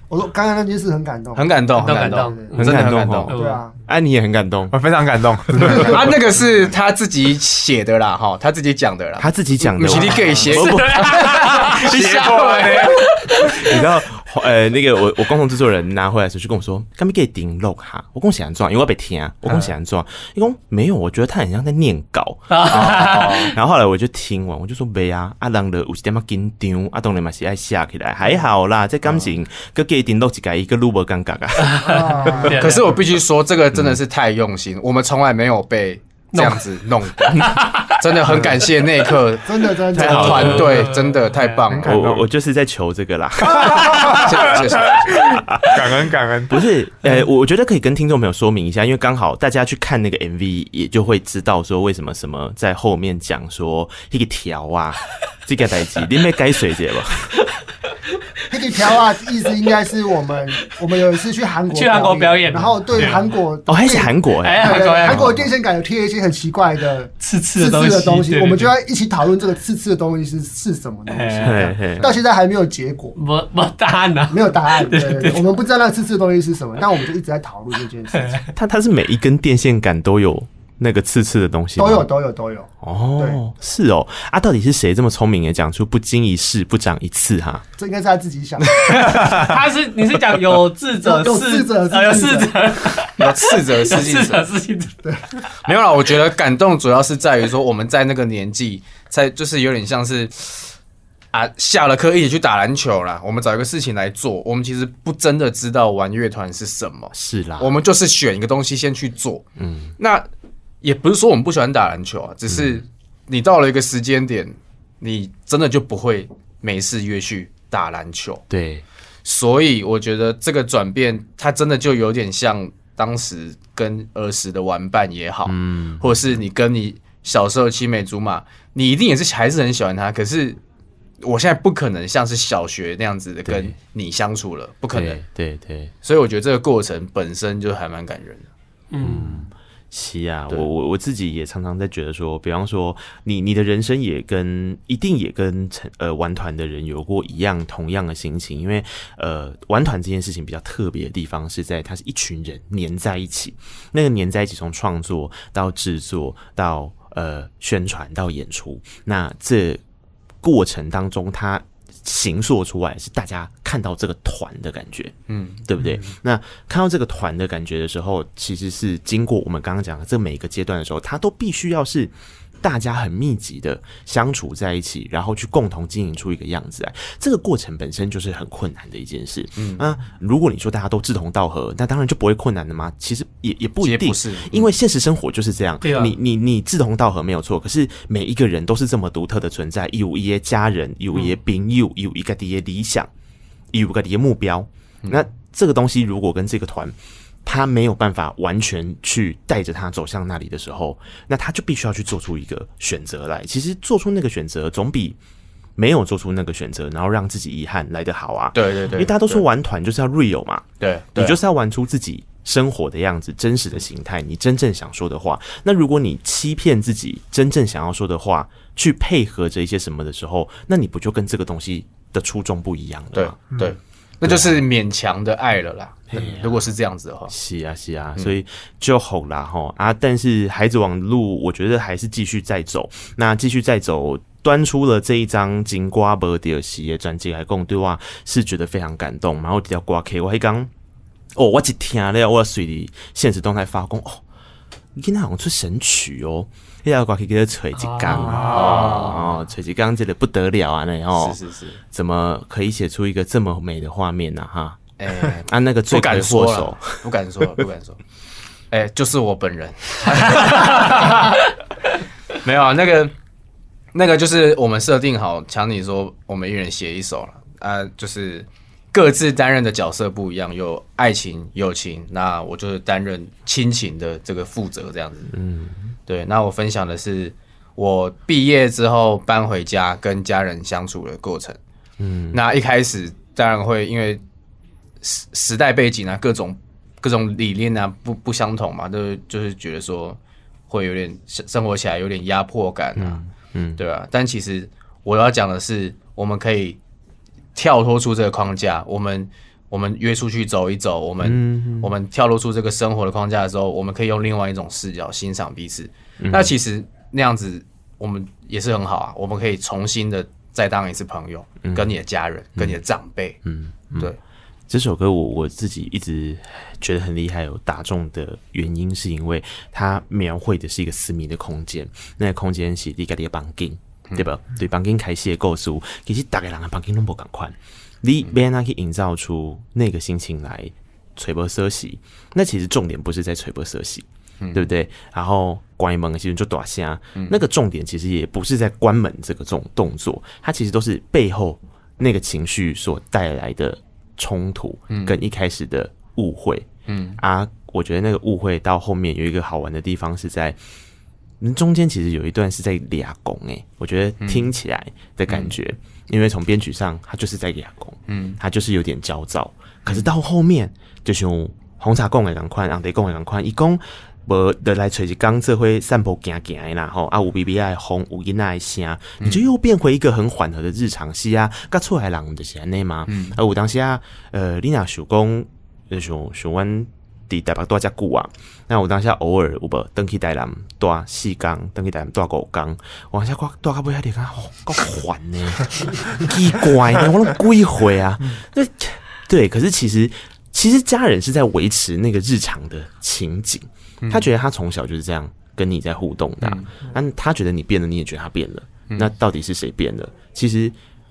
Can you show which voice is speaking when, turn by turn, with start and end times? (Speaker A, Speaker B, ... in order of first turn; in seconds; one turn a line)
Speaker A: 0.1-2.5
Speaker B: 1.4-3.4
Speaker C: 1.8-2.6
Speaker D: 2.5-3.3
Speaker C: 3.3-3.6
Speaker A: 3.3-3.7
Speaker D: 3.9-4.8
Speaker E: 4.7-6.1
Speaker B: 5.6-13.0
Speaker D: 9.2-12.7
Speaker C: 10.0-11.8
Speaker E: 12.2-12.9
Speaker C: 13.0-13.5
Speaker D: 13.4-32.6
Speaker C: 22.5-23.5
Speaker B: 22.7-23.5
Speaker C: 31.6-33.0
Speaker A: 31.8-32.6
Speaker B: 32.5-41.9
Speaker C: 36.3-36.6
Speaker D: 37.3-37.8
Speaker C: 37.4-37.9
Speaker A: 39.5-40.8
Speaker D: 39.9-40.9
Speaker C: 40.5-41.4
Speaker E: 41.8-42.2
Speaker D: 41.8-57.4
Speaker B: 43.5-45.2
Speaker E: 43.5-44.3
Speaker E: 45.7-46.6
Speaker A: 58.5-73.2
Speaker C: 61.7-63.3
Speaker D: 63.7-65.5
Speaker C: 64.4-65.3
Speaker C: 67.2-68.7
Speaker C: 71.1-71.7
Speaker D: 71.4-72.1
Speaker C: 73.2-75.5
Speaker A: 74.3-78.5
Speaker D: 78.6-82.1
Speaker A: 81.8-83.4
Speaker D: 82.8-87.6
Speaker A: 87.8-89.2
Speaker B: 88.7-89.3
Speaker C: 89.4-94.9
Speaker A: 91.0-92.5
Speaker B: 93.2-94.4
Speaker A: 95.0-95.3
Speaker B: 95.6-100.7
Speaker B: 101.3-109.5
Speaker D: 107.1-107.7
Speaker D: 109.6-109.9
Speaker B: 110.0-110.3
Speaker B: 110.8-118.4
Speaker D: 112.5-112.8
Speaker D: 118.5-118.8
Speaker B: 119.2-130.6
Speaker D: 125.5-126.4
Speaker B: 131.2-135.2
Speaker D: 133.5-133.7
Speaker D: 134.9-135.9
Speaker B: 136.0-138.5
Speaker C: 138.9-139.4
Speaker D: 139.0-159.8
Speaker D: 160.4-165.1
Speaker B: 165.3-165.6
Speaker D: 165.7-193.1
Speaker B: 179.6-179.9
Speaker B: 183.8-184.7
Speaker C: 185.8-186.1
Speaker D: 193.7-205.2
Speaker D: 205.8-223.6
Speaker B: 208.5-209.4
Speaker B: 210.8-211.4
Speaker B: 223.1-227.3
Speaker D: 224.2-224.6
Speaker D: 226.1-226.7
Speaker D: 227.3-240.7
Speaker D: 241.3-244.2
Speaker D: 244.9-251.4
Speaker C: 247.7-249.2
Speaker B: 248.5-249.2
Speaker B: 251.1-251.8
Speaker D: 251.9-257.1
Speaker B: 255.0-258.0
Speaker B: 258.7-261.4
Speaker B: 262.4-263.1
Speaker B: 263.9-275.3
Speaker D: 275.3-275.9
Speaker B: 276.1-281.6
Speaker D: 282.0-282.4
Speaker B: 282.3-284.2
Speaker B: 285.0-293.2
Speaker D: 292.9-293.8
Speaker B: 293.8-296.8
Speaker B: 297.6-313.4
Speaker D: 301.2-301.9
Speaker D: 306.2-306.5
Speaker D: 311.6-311.9
Speaker D: 312.6-312.8
Speaker D: 313.4-314.1
Speaker D: 314.7-346.7
Speaker B: 334.4-334.7
Speaker B: 344.9-345.2
Speaker B: 346.9-347.2
Speaker D: 347.2-350.6
Speaker D: 351.4-400.7
Speaker B: 354.2-354.5
Speaker B: 355.3-355.5
Speaker B: 358.1-358.4
Speaker B: 373.1-373.4
Speaker B: 394.0-394.3
Speaker B: 396.4-396.8